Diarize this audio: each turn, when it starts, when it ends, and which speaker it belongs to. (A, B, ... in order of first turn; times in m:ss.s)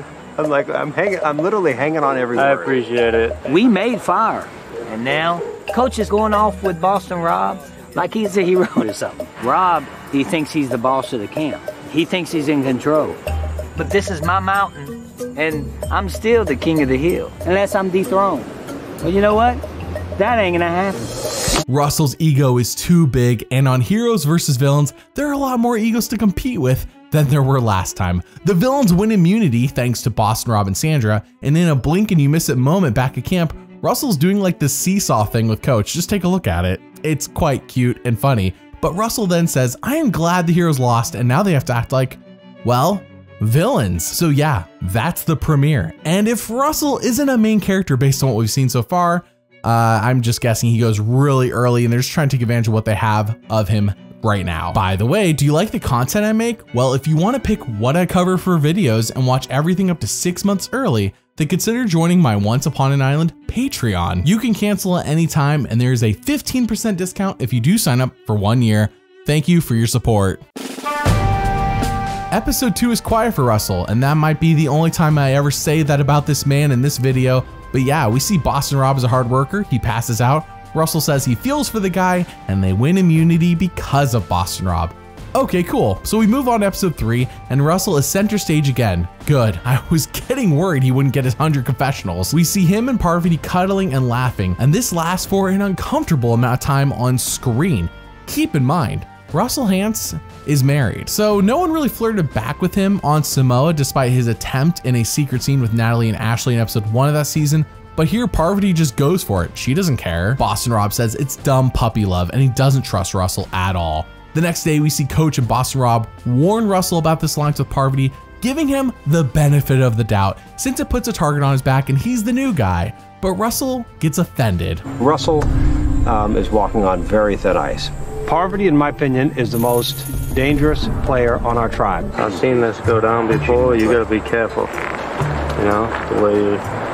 0:00.4-0:02.7 A
0:02.4-0:03.4 B
0:03.4-0:13.2 C
0:13.8-0:18.5 C
0:19.0-0:19.6 C
0:20.2-0:21.1 C
0:21.6-1:10.4 D
1:12.3-2:04.8 D
2:05.0-2:05.5 A
2:06.0-2:12.7 A
2:12.1-2:14.7 B
2:13.4-2:14.0 A
2:15.6-2:16.6 B